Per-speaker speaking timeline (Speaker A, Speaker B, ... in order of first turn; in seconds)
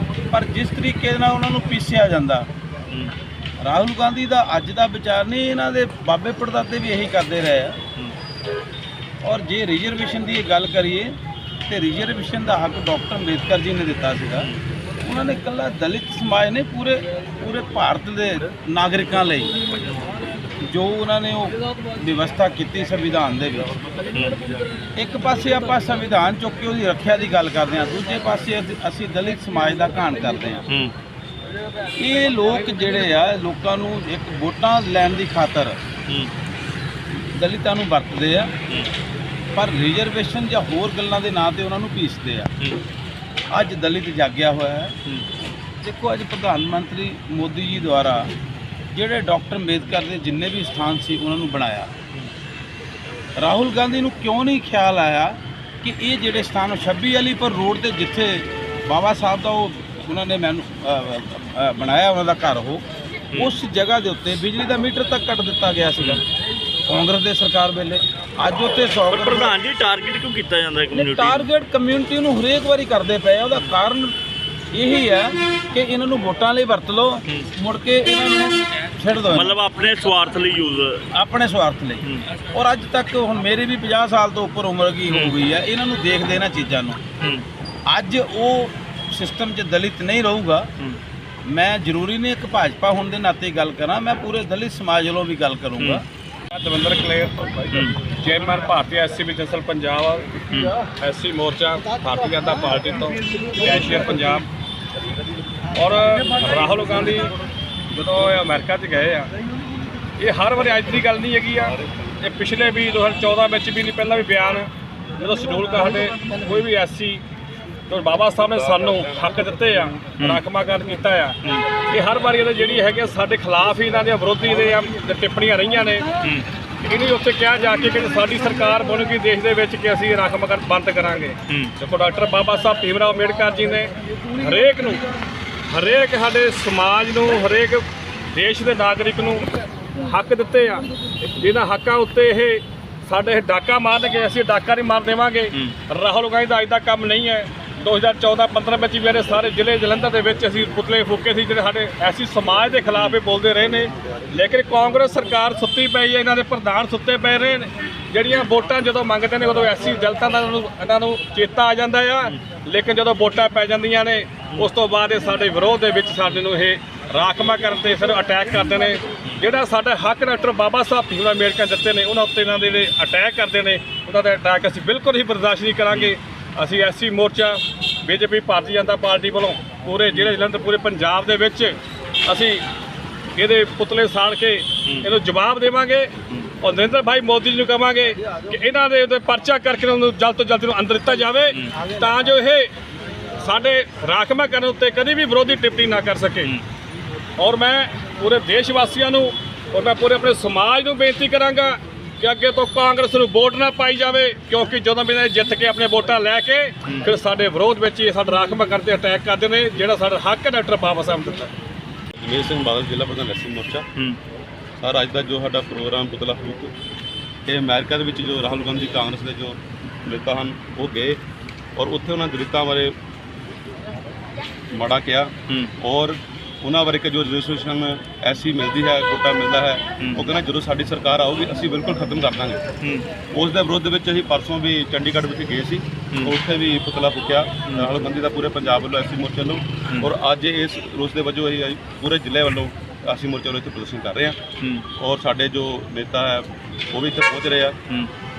Speaker A: 0.3-2.5, 3.6-7.8, 9.2-11.1, 11.7-14.5, 15.0-19.5, 20.6-23.8, 25.0-30.6, 32.0-35.8, 37.3-38.5, 39.5-42.5, 43.5-45.0, 45.8-48.3, 48.9-51.9, 53.4-62.8, 63.4-66.2, 66.9-69.6, 70.9-74.2, 74.7-79.6, 81.1-87.0, 87.9-90.7, 91.5-96.0
Speaker B: 24.1-24.4, 30.7-30.9, 36.1-36.3, 63.3-63.6, 66.0-66.2, 69.1-71.5, 79.3-81.0, 82.0-82.3, 85.1-85.4, 87.2-87.5, 97.7-98.0, 230.0-230.3, 232.8-233.1, 244.6-244.9
Speaker C: 96.5-97.3, 98.1-100.3, 101.0-104.5, 105.8-107.3, 107.9-109.3, 110.2-117.2, 117.9-126.1, 126.8-135.0, 135.7-139.5, 140.0-182.6, 183.3-192.7, 193.4-196.6, 197.4-211.5
Speaker D: 212.2-213.9, 214.8-216.7, 217.5-221.2, 221.8-222.9, 224.7-232.6, 233.3-244.4, 245.0-247.8